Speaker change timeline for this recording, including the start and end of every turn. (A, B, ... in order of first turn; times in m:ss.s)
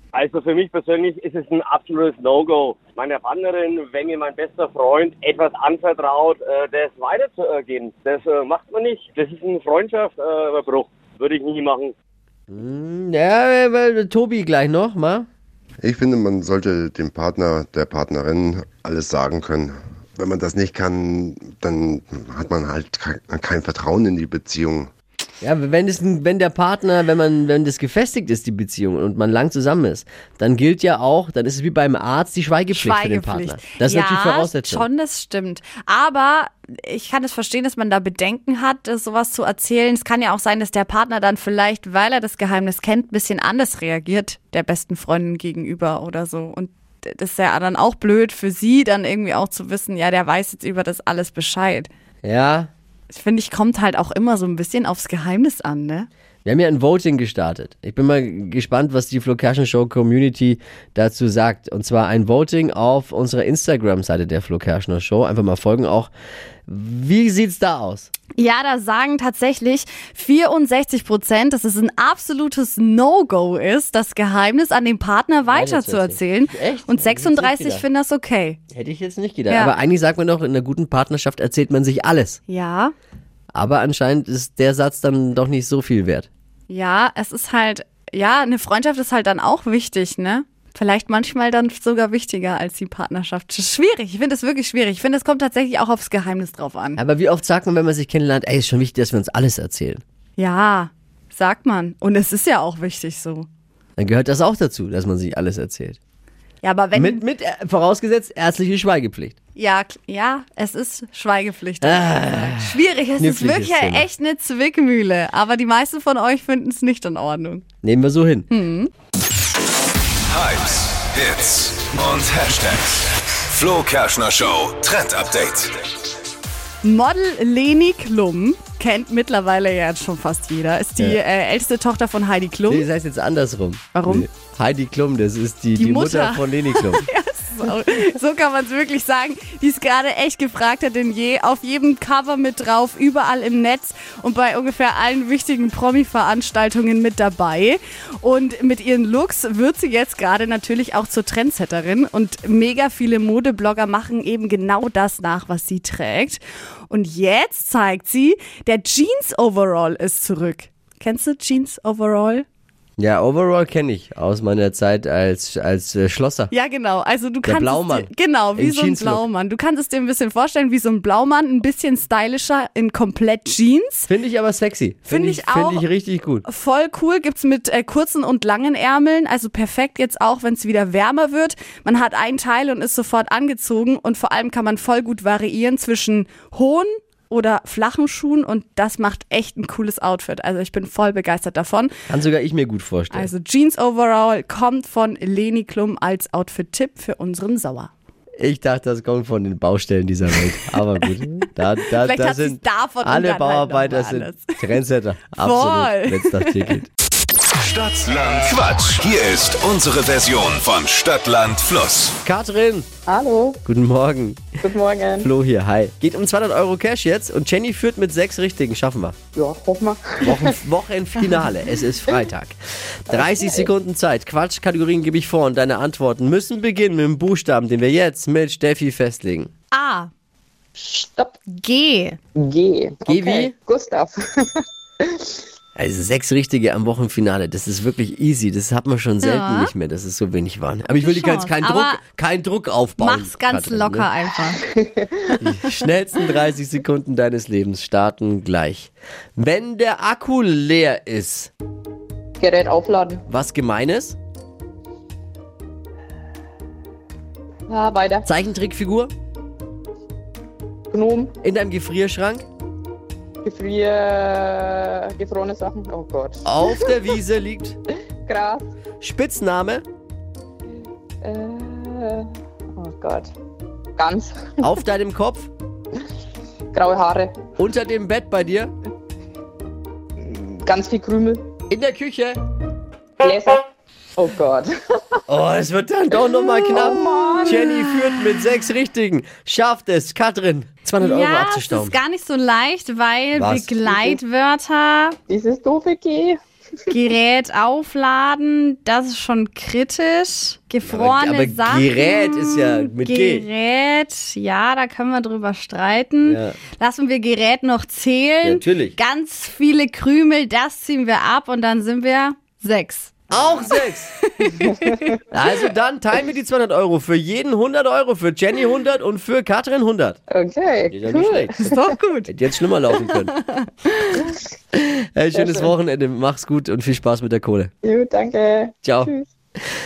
0:00.1-0:11.9 A
0:12.5-0:15.3 B
0:15.8-0:24.9 C
0:25.4-0:34.9 B
0:32.7-0:51.9 D
0:52.2-0:52.7 B
0:53.1-0:56.1 D
0:56.4-1:06.1 B
1:06.7-1:08.1 B
1:08.4-1:18.6 D
1:15.5-1:17.9 B
1:18.7-1:22.4 B
1:19.5-1:19.8 D
1:22.5-1:22.9 D
1:23.5-1:26.3 B
1:26.7-1:37.0 D
1:37.0-1:40.0 B
1:40.4-1:43.5 D
1:44.0-1:46.0 B
1:46.6-1:47.2 D
1:46.9-1:49.4 B
1:49.6-1:57.6 D
1:51.8-1:54.1 B
1:57.8-1:58.5 B
1:58.5-1:58.9 D
2:00.3-2:05.8 E
2:06.8-2:12.9 D
2:12.7-2:17.1 B
2:13.9-2:14.3 D
2:15.8-2:42.5 D
2:43.0-2:46.5 B
2:46.5-2:54.1 D
2:47.4-2:49.2 B
2:54.1-2:56.4 B
2:55.1-2:55.9 D
2:56.4-3:11.9 D
3:12.1-3:13.3 B
3:13.1-3:17.9 D
3:18.4-3:26.9 B
3:22.0-3:24.8 D
3:25.4-3:26.8 D
3:27.6-3:32.2 E
3:32.2-3:32.9 B
3:33.1-3:33.6 F
3:33.6-3:34.6 B
3:34.6-3:35.3 F
3:35.2-3:39.2 B
3:39.4-3:40.5 F
3:40.2-3:49.5 B
3:43.1-3:43.7 F
3:49.7-3:50.1 D
3:50.8-3:51.4 F
3:51.5-3:52.2 D
3:52.4-3:55.4 F
3:53.1-3:53.5 B
3:55.8-4:04.1 B
3:59.2-3:59.7 D
4:01.0-4:02.0 D
4:03.0-4:04.6 D
4:04.7-4:05.4 F
4:05.4-4:11.5 B
4:12.4-4:13.2 F
4:13.3-4:14.2 B
4:17.7-4:18.3 F
4:18.3-4:19.1 B
4:20.9-4:21.3 F
4:21.4-4:22.4 B
4:23.4-4:26.9 F
4:26.4-4:27.8 B
4:28.3-4:28.7 F
4:29.0-4:29.8 B
4:31.2-4:32.2 F
4:32.8-4:33.3 F
4:34.0-4:34.8 F
4:34.6-4:35.5 B
4:36.7-4:37.4 F
4:37.6-4:38.7 B
4:40.2-4:41.5 F
4:41.7-4:42.4 B
4:43.2-4:45.2 F
4:45.3-4:52.0 B
4:46.7-4:47.7 F
4:51.0-4:55.2 D
4:53.3-4:54.1 B
4:55.3-4:56.4 F
4:56.9-5:13.6 D
5:00.8-5:03.5 B
5:06.2-5:06.6 B
5:08.4-5:09.0 B
5:13.3-5:14.1 B
5:14.2-5:15.2 D
5:15.3-5:20.2 B
5:20.3-5:21.5 F
5:20.9-5:21.7 B
5:21.6-5:22.3 D
5:22.3-5:23.3 B
5:23.0-5:24.2 D
5:24.7-5:27.7 B
5:25.4-5:25.7 F
5:27.8-5:29.3 F
5:28.8-5:29.1 B